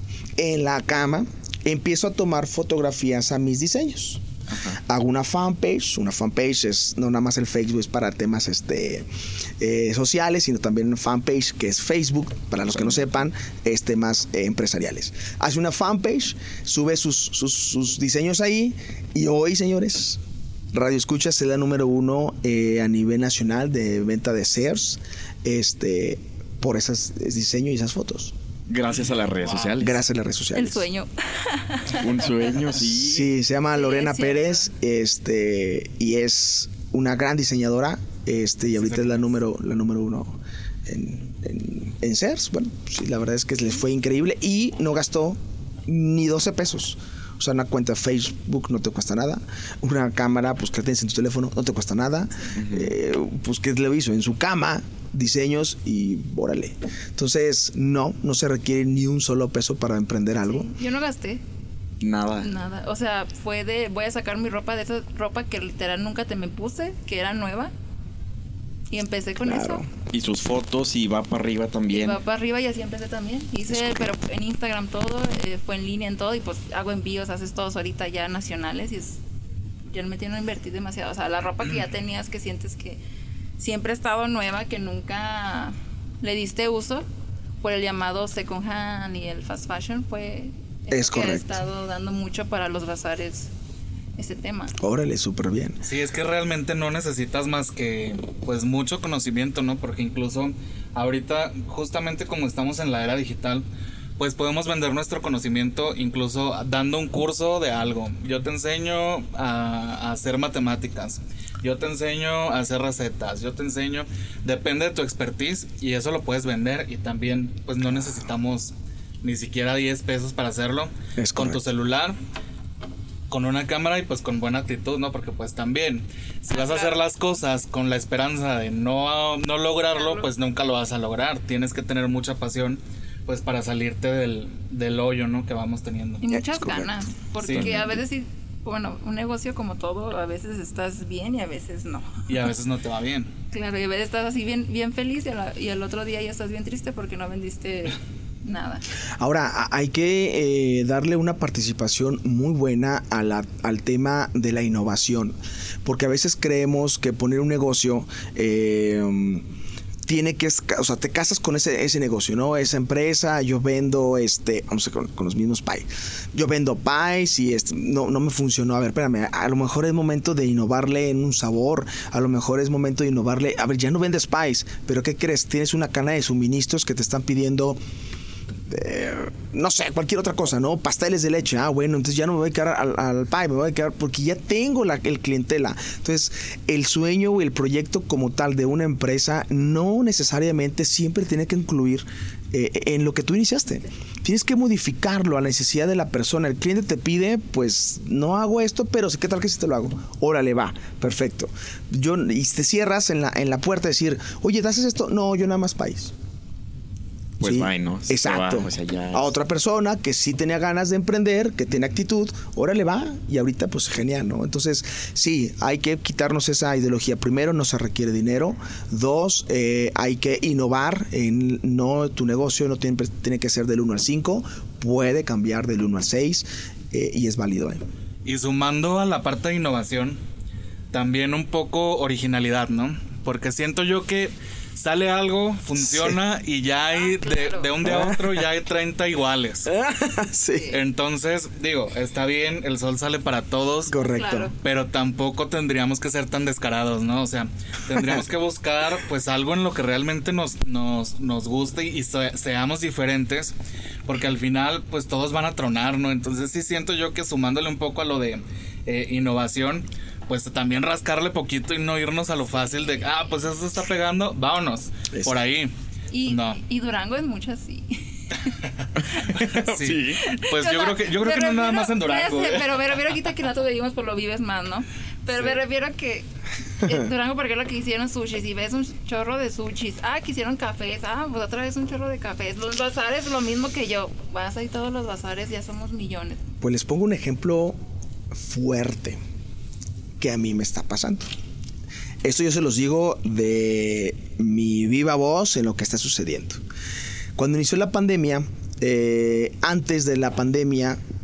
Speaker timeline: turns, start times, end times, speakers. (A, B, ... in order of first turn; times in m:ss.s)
0:00.4-0:04.2 A
0:04.5-0:04.8 B
0:04.9-0:09.1 A
0:09.6-0:20.2 A
0:20.7-0:28.4 A
0:28.7-0:30.0 B
0:29.8-0:30.9 A
0:30.6-0:32.1 C
0:31.9-0:33.3 B
0:32.8-1:00.7 A
0:33.7-0:34.6 C
0:38.8-0:39.2 D
0:52.6-0:52.9 B
1:00.5-1:01.4 C
1:02.0-1:02.5 B
1:02.4-1:07.7 C
1:08.9-1:09.8 C
1:09.4-1:09.9 A
1:10.1-1:12.2 B
1:11.9-1:19.2 C
1:19.9-1:23.0 C
1:23.6-1:27.1 C
1:27.6-1:33.5 C
1:30.9-1:31.6 A
1:34.2-1:34.7 C
1:34.8-1:35.8 A
1:35.8-1:43.6 D
1:44.2-2:02.2 D
2:01.2-2:01.6 A
2:03.3-2:16.2 D
2:06.5-2:07.0 C
2:10.0-2:10.3 C
2:16.2-2:22.3 C
2:16.3-2:17.0 A
2:17.4-2:17.9 D
2:17.7-2:17.9 A
2:22.3-2:23.3 D
2:23.5-2:28.8 C
2:29.2-2:39.5 A
2:40.0-2:57.8 A
2:58.7-3:26.1 A
3:27.4-3:29.3 B
3:27.4-3:47.8 A
3:48.2-3:50.2 D
3:50.9-3:59.7 D
3:55.8-3:56.2 A
3:56.9-3:57.8 C
3:57.8-3:58.3 A
3:59.7-4:00.8 A
4:00.7-4:03.9 D
4:03.9-4:04.5 A
4:04.1-4:04.5 C
4:04.6-4:13.6 D
4:08.0-4:08.2 A
4:14.1-4:25.7 D
4:25.1-4:25.4 A
4:26.1-4:28.6 C
4:26.2-4:26.6 D
4:29.0-4:30.2 B
4:29.3-4:33.0 D
4:30.2-4:36.2 C
4:35.3-4:35.6 D
4:36.8-4:46.4 C
4:46.6-4:47.8 A
4:48.3-4:49.2 A
4:50.2-4:51.3 A
4:52.2-4:56.6 A
4:57.4-5:01.0 A